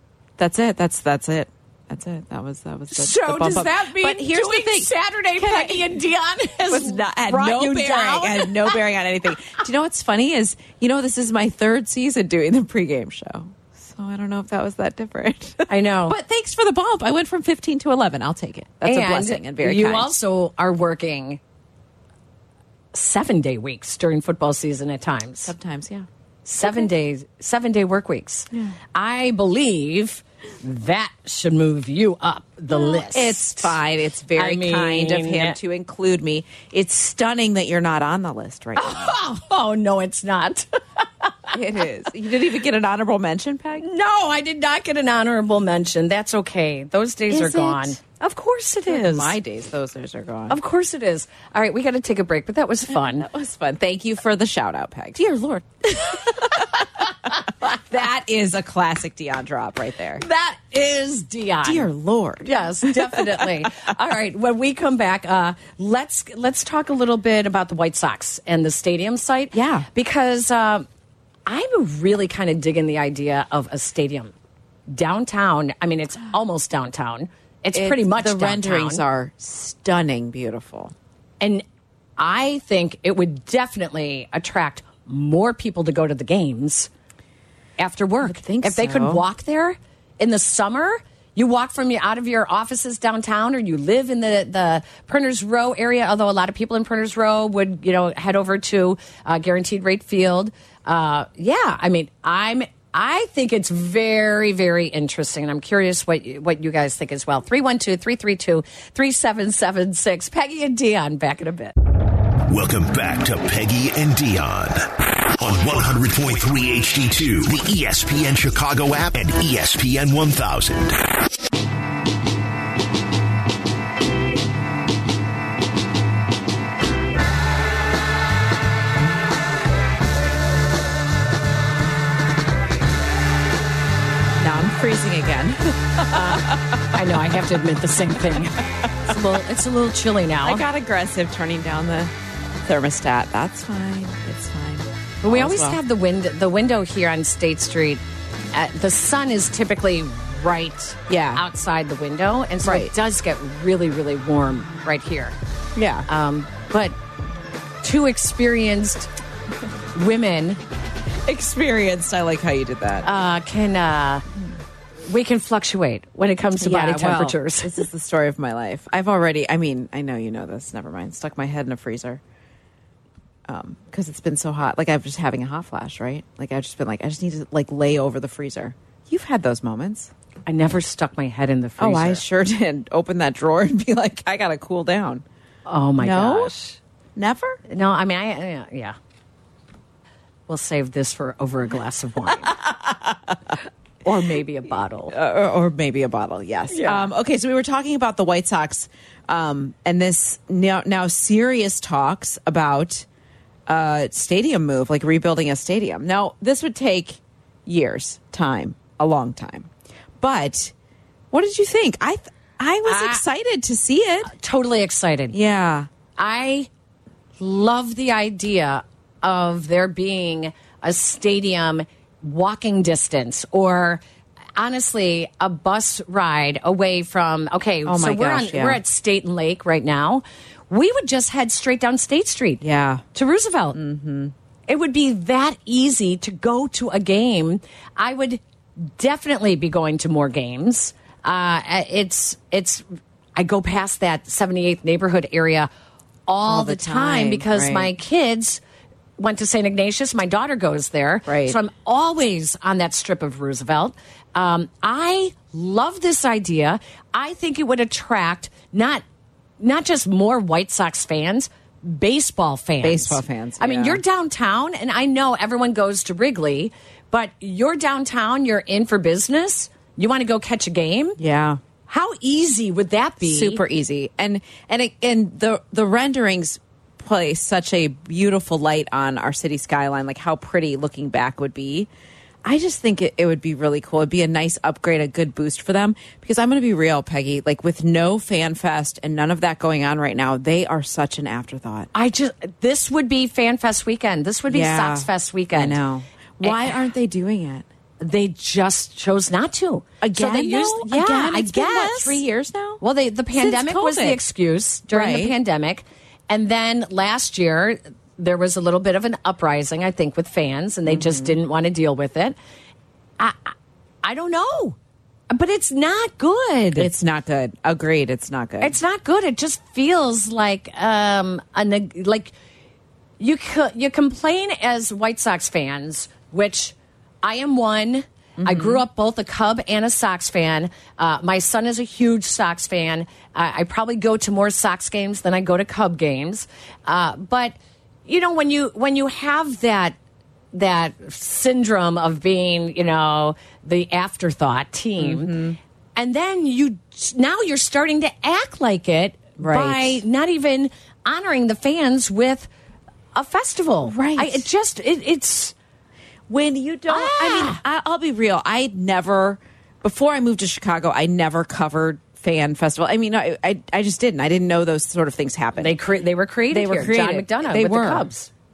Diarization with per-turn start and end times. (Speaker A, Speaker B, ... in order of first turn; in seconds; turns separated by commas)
Speaker A: 0.4-6.0, Speaker B: 2.9-8.8, Speaker A: 6.7-20.1, Speaker B: 15.7-16.1, Speaker B: 18.8-21.4, Speaker B: 22.9-25.5, Speaker A: 25.4-26.1, Speaker B: 26.4-33.8, Speaker A: 26.6-26.9, Speaker A: 32.7-39.1, Speaker B: 34.3-35.6, Speaker B: 38.8-41.5, Speaker A: 41.5-43.9, Speaker B: 43.8-49.4, Speaker A: 47.3-48.0, Speaker A: 48.9-50.6, Speaker B: 50.5-53.3, Speaker A: 53.0-60.2, Speaker B: 60.2-61.9, Speaker A: 61.6-63.7, Speaker B: 62.4-70.9, Speaker A: 69.5-69.9, Speaker B: 71.5-74.3, Speaker B: 74.9-79.0, Speaker A: 77.7-80.9, Speaker B: 82.2-86.9, Speaker B: 87.8-111.7, Speaker A: 88.2-89.2, Speaker C: 112.5-121.0, Speaker A: 134.4-136.6, Speaker B: 136.1-140.6, Speaker A: 140.4-142.1, Speaker A: 142.6-145.8, Speaker B: 145.2-148.0, Speaker B: 148.5-155.3, Speaker A: 151.1-151.4, Speaker A: 152.6-152.9, Speaker A: 155.7-156.1, Speaker B: 156.1-156.9, Speaker B: 157.8-159.1, Speaker B: 159.9-160.6, Speaker A: 161.2-163.1, Speaker B: 163.0-164.2, Speaker B: 165.1-167.7, Speaker A: 166.6-172.2, Speaker A: 173.5-180.1, Speaker B: 180.4-182.2, Speaker A: 181.8-185.2, Speaker B: 185.7-186.8, Speaker A: 186.0-186.5, Speaker A: 187.2-187.6, Speaker B: 187.7-188.9, Speaker B: 190.5-192.5, Speaker A: 192.5-193.1, Speaker B: 194.0-195.1, Speaker A: 194.1-194.4, Speaker A: 195.1-203.1, Speaker B: 196.7-197.1, Speaker A: 203.7-210.7, Speaker A: 211.3-214.3, Speaker B: 212.8-213.2, Speaker B: 214.3-215.3, Speaker A: 215.3-215.9, Speaker B: 216.2-216.7, Speaker B: 217.4-224.0, Speaker B: 224.6-232.6, Speaker A: 227.8-228.8, Speaker A: 232.6-233.0, Speaker B: 233.1-233.8, Speaker A: 233.7-234.3, Speaker B: 234.7-245.7, Speaker B: 246.3-248.6, Speaker A: 246.4-247.9, Speaker B: 249.2-259.0, Speaker A: 251.2-251.6, Speaker B: 259.6-271.2, Speaker A: 262.8-264.0, Speaker A: 271.2-271.6, Speaker B: 271.9-273.6, Speaker A: 273.2-281.9, Speaker A: 282.4-291.9, Speaker B: 291.9-295.8, Speaker A: 294.5-297.6, Speaker B: 296.4-296.8, Speaker B: 298.0-302.2, Speaker A: 300.0-302.8, Speaker B: 302.8-312.4, Speaker A: 303.3-304.2, Speaker A: 304.9-305.4, Speaker A: 310.9-311.4, Speaker B: 313.2-314.8, Speaker B: 315.3-316.9, Speaker A: 316.7-318.8, Speaker B: 318.6-322.3, Speaker B: 323.2-339.9, Speaker A: 328.4-328.8, Speaker B: 340.5-345.4, Speaker A: 345.0-345.6, Speaker B: 345.9-352.5, Speaker A: 349.4-350.0, Speaker B: 353.1-355.5, Speaker A: 353.9-354.4, Speaker A: 356.3-365.8, Speaker B: 356.9-357.6, Speaker B: 365.6-368.3, Speaker A: 366.5-368.1